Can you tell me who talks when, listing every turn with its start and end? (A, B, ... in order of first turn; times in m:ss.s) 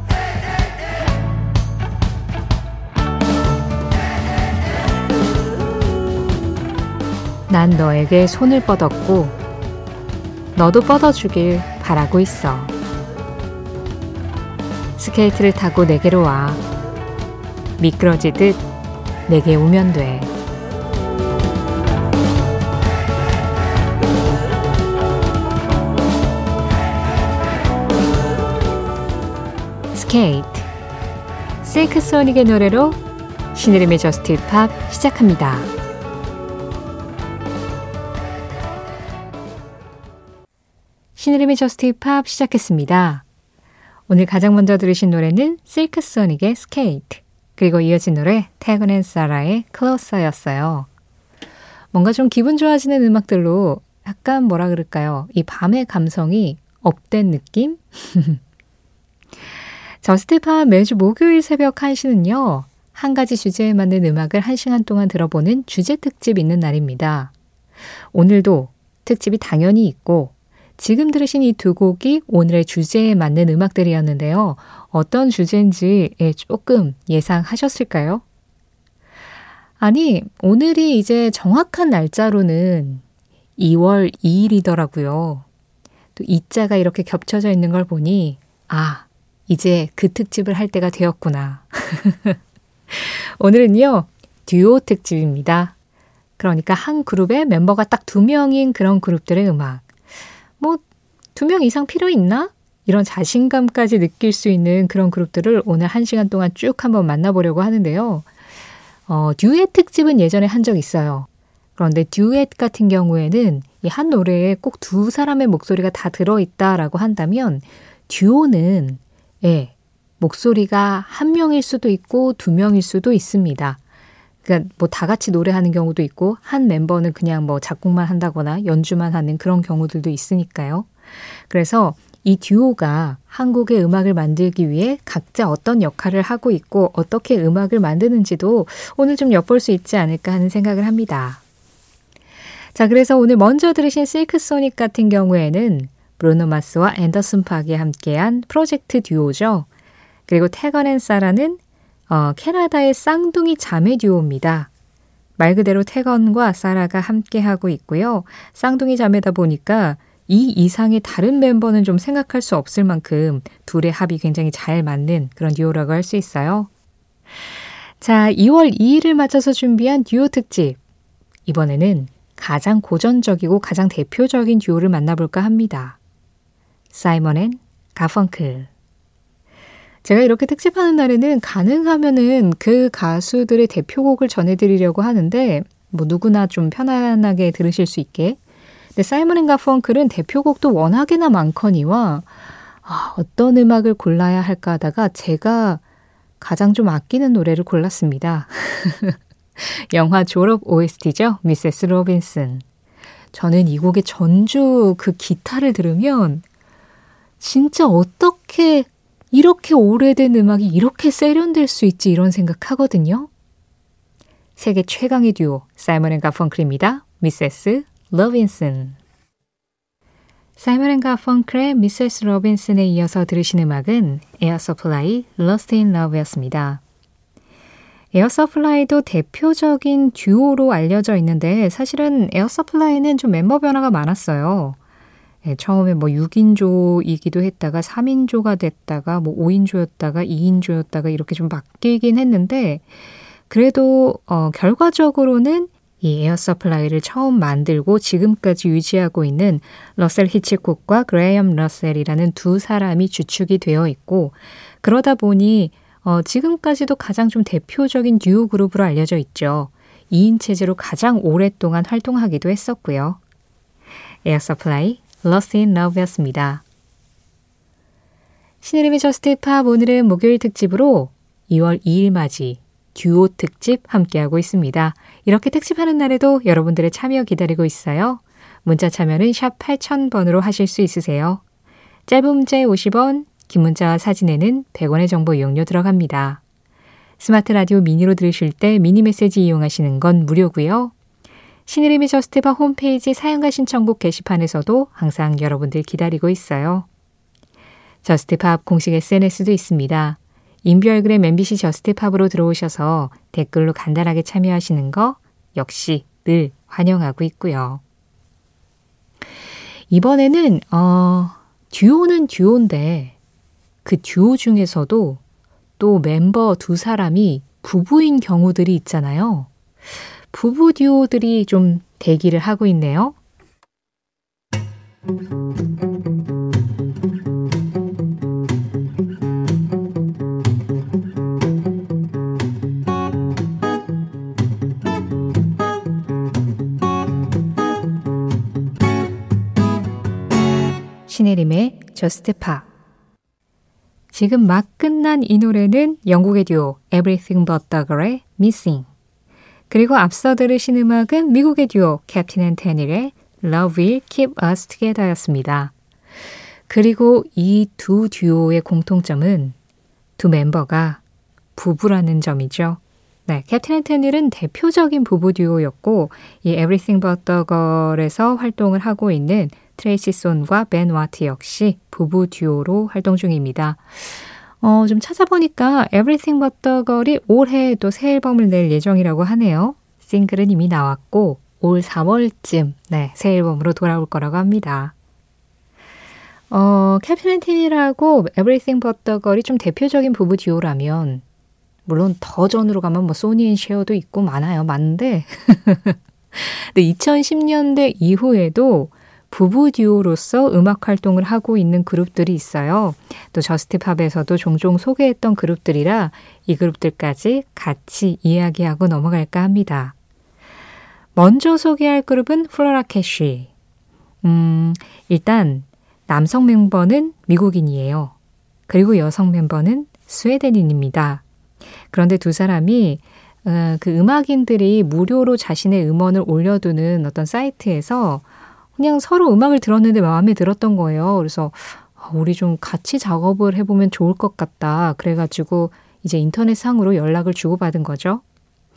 0:07.5-0:09.4 A
0:10.6-0:12.7 A
0:15.0-0:16.6 A
0:17.8-0:18.6 A
0:19.3-0:20.3 A
0:29.9-0:30.7 A
0:31.6-0:33.0 A
0:33.5-0:35.7 A
0:41.2-0:43.2 A
0:44.1-0:50.9 A
0:51.9-0:58.4 A
1:00.0-1:07.3 A
1:08.1-1:18.2 A
1:19.8-1:23.0 A
1:23.6-1:25.4 A
1:26.2-1:32.4 A
1:32.9-1:35.7 A
1:36.4-1:39.9 A
1:41.4-1:48.3 A
1:49.1-2:03.8 A
2:04.4-2:21.4 A
2:22.7-2:29.7 A
2:30.3-2:34.7 A
2:35.4-2:46.7 A
2:48.0-2:50.8 A
2:51.5-2:56.0 A
2:56.9-2:58.7 A
3:00.0-3:08.4 A
3:09.0-3:12.3 A
3:12.8-3:15.8 A
3:16.4-3:22.6 A
3:23.3-3:26.4 A
3:27.4-3:33.3 A
3:34.6-3:39.0 A
3:40.6-3:46.8 A
3:48.1-3:54.8 A
3:55.4-4:02.9 A
4:03.5-4:23.2 A
4:24.2-4:26.6 A
4:28.6-4:41.4 A
4:42.1-4:46.4 A
4:47.2-4:50.9 A
4:51.7-4:56.9 A
4:58.0-5:07.8 A
5:09.9-5:13.2 A
5:13.8-5:15.2 A
5:15.8-5:19.5 A
5:20.3-5:23.2 A
5:41.1-5:42.7 A
5:44.1-5:48.9 A
5:49.7-5:55.7 A
5:56.7-5:59.6 A
6:00.2-6:01.0 A
6:01.6-6:24.9 A
6:26.5-6:31.2 A
6:31.9-6:50.0 A
6:51.2-6:53.5 A
6:54.2-6:58.2 A
6:58.7-7:01.2 A
7:01.9-7:08.2 A
7:08.8-7:18.2 A